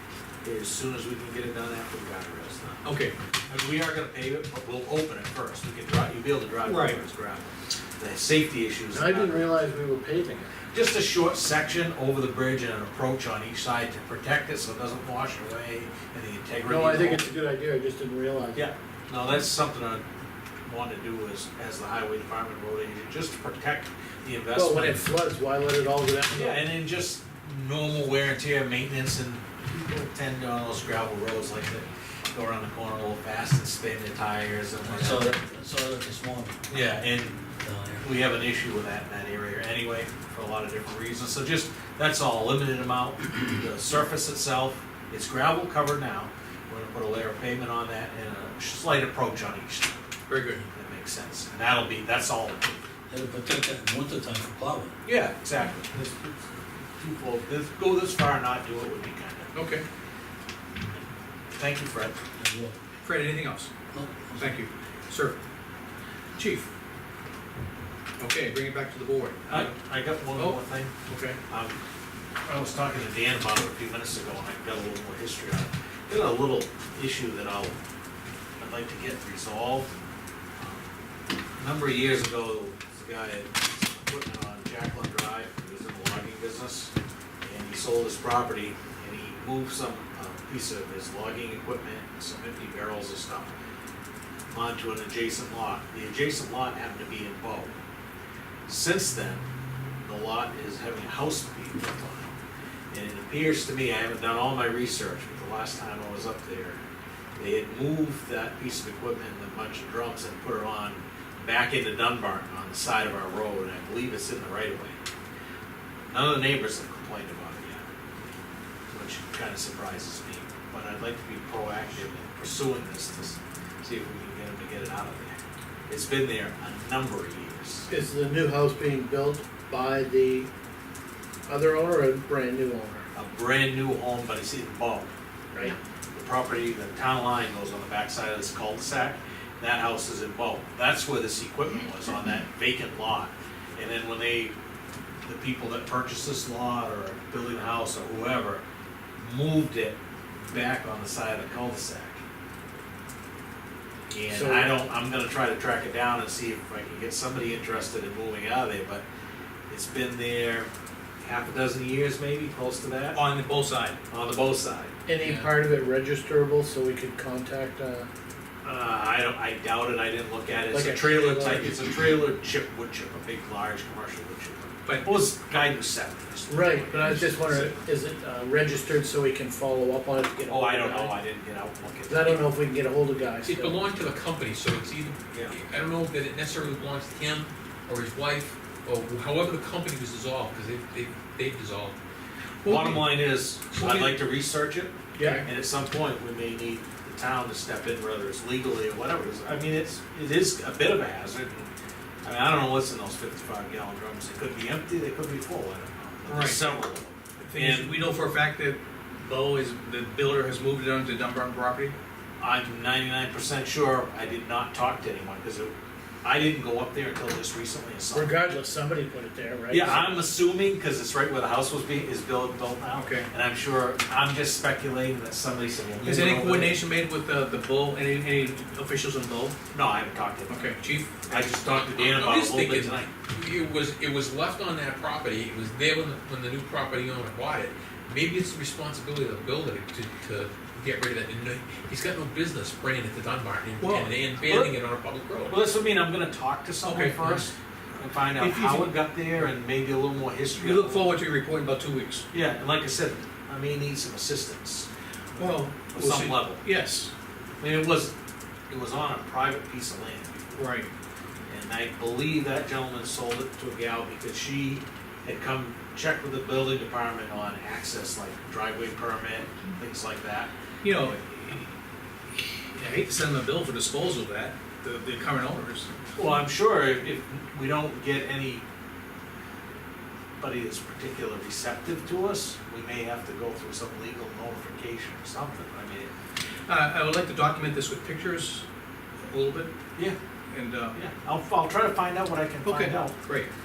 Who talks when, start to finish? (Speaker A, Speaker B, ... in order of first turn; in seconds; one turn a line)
Speaker A: 0.4-2.8
Speaker B: 2.8-3.1
Speaker A: 3.5-9.5
Speaker B: 6.7-7.0
Speaker C: 8.9-10.5
Speaker A: 10.7-17.3
Speaker C: 16.6-18.6
Speaker A: 18.5-20.0
Speaker A: 20.6-25.1
Speaker C: 24.5-26.6
Speaker A: 26.3-35.4
Speaker D: 34.8-36.6
Speaker A: 36.7-37.4
Speaker D: 37.6-38.1
Speaker A: 38.0-49.9
Speaker B: 50.3-50.6
Speaker A: 50.7-52.8
Speaker D: 53.1-54.9
Speaker A: 55.0-59.5
Speaker B: 59.5-59.8
Speaker A: 61.5-62.2
Speaker D: 62.4-62.8
Speaker B: 63.0-63.7
Speaker D: 63.9-64.6
Speaker B: 64.4-65.4
Speaker B: 66.4-66.7
Speaker B: 68.2-69.7
Speaker A: 69.5-70.9
Speaker B: 70.3-71.4
Speaker A: 71.5-71.8
Speaker A: 72.5-77.7
Speaker A: 78.6-79.9
Speaker A: 80.6-80.9
Speaker A: 81.6-86.9
Speaker A: 87.4-93.5
Speaker A: 94.5-97.8
Speaker A: 98.7-99.4
Speaker A: 100.0-102.3
Speaker A: 102.9-106.8
Speaker A: 107.4-115.0
Speaker A: 116.1-117.8
Speaker A: 118.9-125.3
Speaker A: 125.9-127.9
Speaker C: 127.9-130.5
Speaker C: 131.5-133.1
Speaker A: 133.1-135.1
Speaker A: 136.1-144.5
Speaker A: 145.2-148.6
Speaker A: 149.2-150.0
Speaker A: 150.5-152.2
Speaker A: 154.1-159.0
Speaker C: 154.3-154.7
Speaker A: 159.7-160.7
Speaker A: 161.2-163.2
Speaker B: 163.1-164.0
Speaker A: 164.1-164.9
Speaker C: 165.1-168.1
Speaker A: 168.6-177.8
Speaker C: 170.7-171.7
Speaker B: 174.9-175.2
Speaker C: 176.5-181.1
Speaker A: 180.4-182.5
Speaker C: 182.1-183.8
Speaker E: 183.4-191.9
Speaker A: 185.3-185.6
Speaker B: 192.6-194.2
Speaker A: 192.6-201.7
Speaker B: 195.2-195.4
Speaker A: 202.2-208.0
Speaker B: 206.3-206.8
Speaker B: 207.4-211.9
Speaker A: 212.4-215.7
Speaker A: 216.2-218.3
Speaker C: 218.1-220.2
Speaker A: 219.7-226.8
Speaker B: 222.9-223.3
Speaker B: 226.0-229.5
Speaker A: 229.7-230.6
Speaker B: 230.5-231.3
Speaker A: 231.3-233.1
Speaker E: 231.8-245.6
Speaker B: 243.8-244.1
Speaker A: 244.4-244.7
Speaker A: 245.5-251.1
Speaker B: 246.8-247.5
Speaker B: 248.3-249.0
Speaker B: 250.6-252.2
Speaker A: 252.3-254.9
Speaker B: 255.3-257.1
Speaker A: 255.9-256.6
Speaker A: 257.6-258.1
Speaker A: 258.7-260.5
Speaker B: 260.6-260.9
Speaker A: 261.5-271.2
Speaker B: 270.8-271.7
Speaker B: 272.7-276.1
Speaker A: 276.1-278.6
Speaker A: 280.4-286.1
Speaker B: 286.7-288.6
Speaker B: 289.2-289.7
Speaker B: 290.5-291.0
Speaker A: 290.9-293.2
Speaker B: 292.6-293.5